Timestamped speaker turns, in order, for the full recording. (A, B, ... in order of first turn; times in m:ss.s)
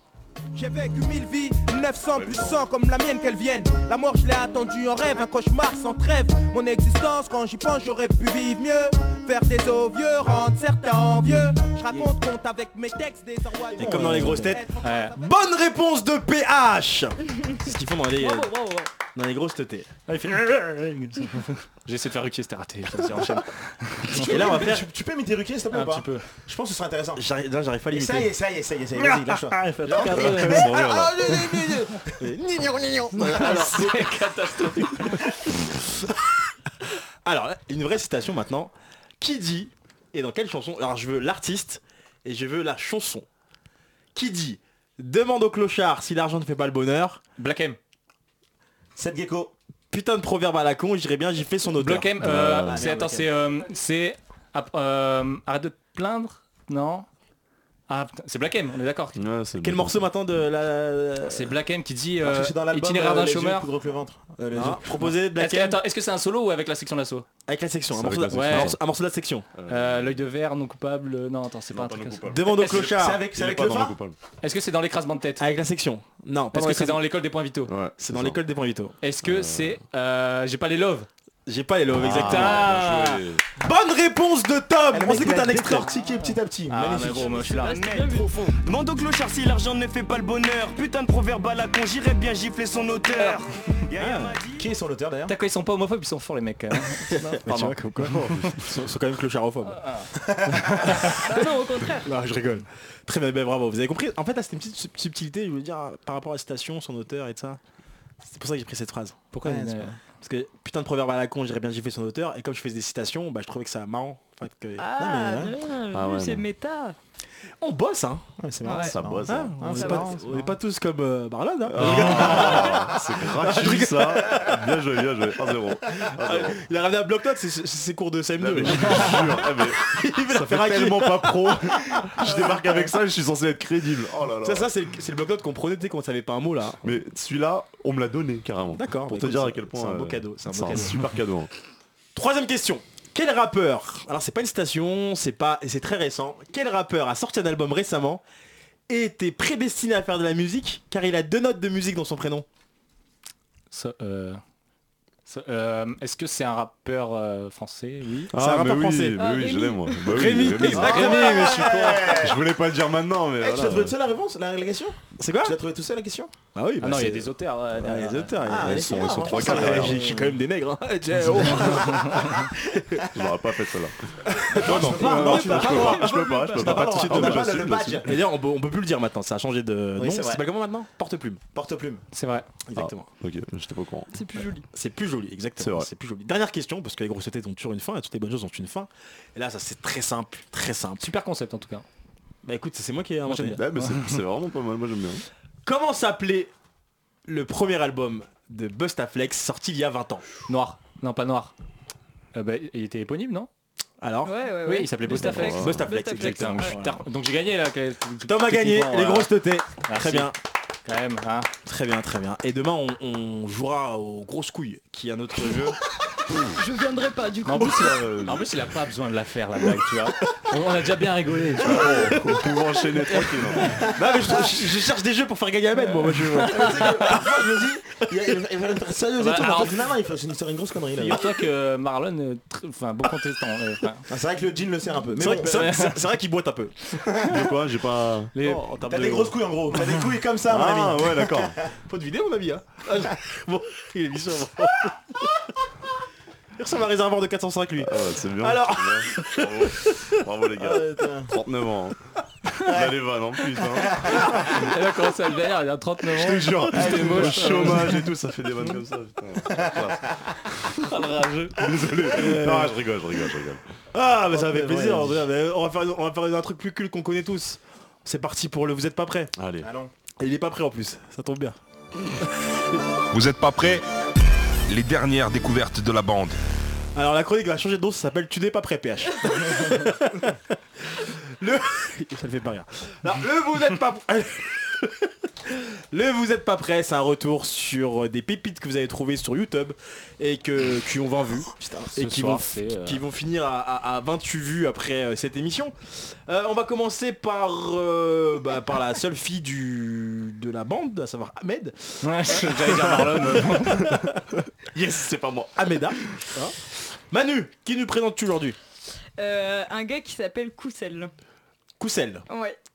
0:00.5-0:15.3 A
0:02.1-0:02.6 B
0:13.7-0:18.5 C
0:13.8-0:14.4 D
0:13.9-0:15.2 E
0:18.2-0:18.9 F
0:19.1-0:19.9 C
0:20.1-0:24.6 E
0:24.1-0:27.2 D
0:24.2-0:24.8 C
0:25.7-0:26.3 E
0:27.2-0:28.3 C
0:27.9-0:32.0 D
0:29.0-0:31.1 C
0:29.8-0:30.8 E
0:30.2-0:31.1 B
0:31.3-0:31.6 E
0:32.2-0:34.1 C
0:33.2-0:35.4 E
0:33.3-0:33.7 D
0:37.2-0:43.2 C
0:44.1-0:47.2 C
0:47.4-0:47.8 E
0:48.9-0:49.5 D
0:49.9-0:52.1 C
0:51.8-0:57.1 E
0:52.2-0:52.9 B
0:52.7-0:53.3 D
0:57.9-0:59.2 E
0:59.2-1:00.0 B
0:59.6-1:01.5 C
1:01.3-1:03.7 E
1:02.2-1:04.9 D
1:04.5-1:05.8 C
1:05.4-1:07.3 E
1:07.5-1:09.5 C
1:07.9-1:08.8 B
1:08.3-1:08.7 E
1:09.6-1:10.2 B
1:09.7-1:12.8 E
1:11.7-1:14.2 B
1:12.3-1:13.2 C
1:12.8-1:14.0 D
1:14.4-1:15.4 E
1:15.4-1:17.0 C
1:16.5-1:17.7 E
1:17.7-1:18.4 B
1:18.0-1:18.9 C
1:19.0-1:21.1 E
1:19.2-1:19.8 B
1:21.4-1:22.6 C
1:21.9-1:23.4 B
1:22.1-1:23.2 E
1:23.6-1:25.9 C
1:24.9-1:27.3 D
1:25.9-1:27.8 E
1:27.1-1:28.5 F
1:27.6-1:33.4 G
1:34.0-1:34.4 C
1:34.0-1:35.3 D
1:35.3-1:38.5 E
1:37.2-1:39.8 C
1:38.1-1:38.6 B
1:39.7-1:41.2 E
1:41.2-1:42.1 F
1:42.0-1:47.6 C
1:48.2-1:49.3 C
1:49.3-1:49.9 E
1:49.4-1:50.0 D
1:50.2-1:55.5 C
1:54.8-1:57.0 F
1:55.9-1:56.4 B
1:57.6-2:04.6 C
1:58.4-2:00.5 D
1:58.6-1:59.0 F
1:58.7-1:59.8 B
1:59.7-2:00.3 F
2:01.7-2:06.6 B
2:01.9-2:02.1 E
2:05.9-2:12.9 C
2:08.4-2:14.7 B
2:14.4-2:16.9 C
2:16.8-2:21.5 B
2:18.7-2:21.0 C
2:22.1-2:28.2 C
2:28.9-2:32.4 C
2:33.7-2:34.4 E
2:35.2-2:38.3 E
2:38.3-2:43.9 B
2:38.3-2:39.2 C
2:39.2-2:40.3 F
2:40.0-2:41.9 C
2:40.6-2:42.1 E
2:40.7-2:42.4 D
2:43.4-2:46.3 D
2:45.2-2:45.6 C
2:46.5-2:52.5 C
2:46.8-2:48.4 E
2:48.4-2:50.3 D
2:48.5-2:50.1 B
2:51.7-2:52.4 E
2:53.1-2:53.9 B
2:54.3-3:01.4 C
2:54.5-2:58.2 D
2:54.6-2:58.1 B
2:54.8-2:56.7 F
3:00.0-3:00.4 D
3:01.5-3:02.0 D
3:02.1-3:02.5 E
3:02.7-3:03.1 C
3:02.8-3:04.1 B
3:04.1-3:04.6 F
3:04.7-3:11.1 C
3:05.6-3:05.9 B
3:11.0-3:11.8 E
3:12.4-3:13.6 C
3:13.2-3:14.2 E
3:13.5-3:15.2 B
3:15.6-3:16.5 C
3:17.3-3:20.2 C
3:20.5-3:21.5 E
3:22.3-3:23.5 E
3:24.0-3:24.3 C
3:24.2-3:26.8 F
3:24.6-3:29.3 E
3:25.1-3:27.0 C
3:25.4-3:25.9 B
3:28.3-3:30.3 C
3:29.8-3:30.3 E
3:30.8-3:31.5 E
3:31.6-3:35.8 C
3:36.5-3:38.1 F
3:37.4-3:42.1 E
3:37.9-3:38.4 B
3:41.6-3:43.9 B
3:43.1-3:47.3 C
3:46.5-3:51.2 D
3:49.2-3:49.8 E
3:51.0-3:54.1 E
3:54.1-3:55.7 D
3:55.2-3:57.0 C
3:55.4-3:56.0 E
3:57.2-3:58.3 B
3:58.3-3:59.2 E
3:58.5-3:59.3 C
3:58.9-4:01.5 D
4:00.5-4:01.6 B
4:01.9-4:05.4 C
4:06.6-4:10.1 C
4:07.8-4:11.9 B
4:10.6-4:11.3 D
4:12.6-4:14.6 B
4:14.5-4:18.0 E
4:16.1-4:20.8 B
4:20.8-4:21.6 E
4:21.5-4:23.6 B
4:22.1-4:22.8 C
4:23.9-4:29.3 C
4:24.3-4:25.2 D
4:29.4-4:29.7 B
4:29.6-4:29.9 D
4:30.2-4:31.6 C
4:32.5-4:32.8 C
4:33.1-4:33.8 H
4:34.7-4:36.4 H
4:36.9-4:40.4 C
4:40.9-5:04.2 C
4:51.9-4:53.0 E
5:02.0-5:04.0 E
5:04.7-5:05.6 B
5:05.6-5:06.6 C
5:07.1-5:08.6 C
5:09.2-5:11.1 F
5:11.8-5:12.2 C
5:12.3-5:12.6 F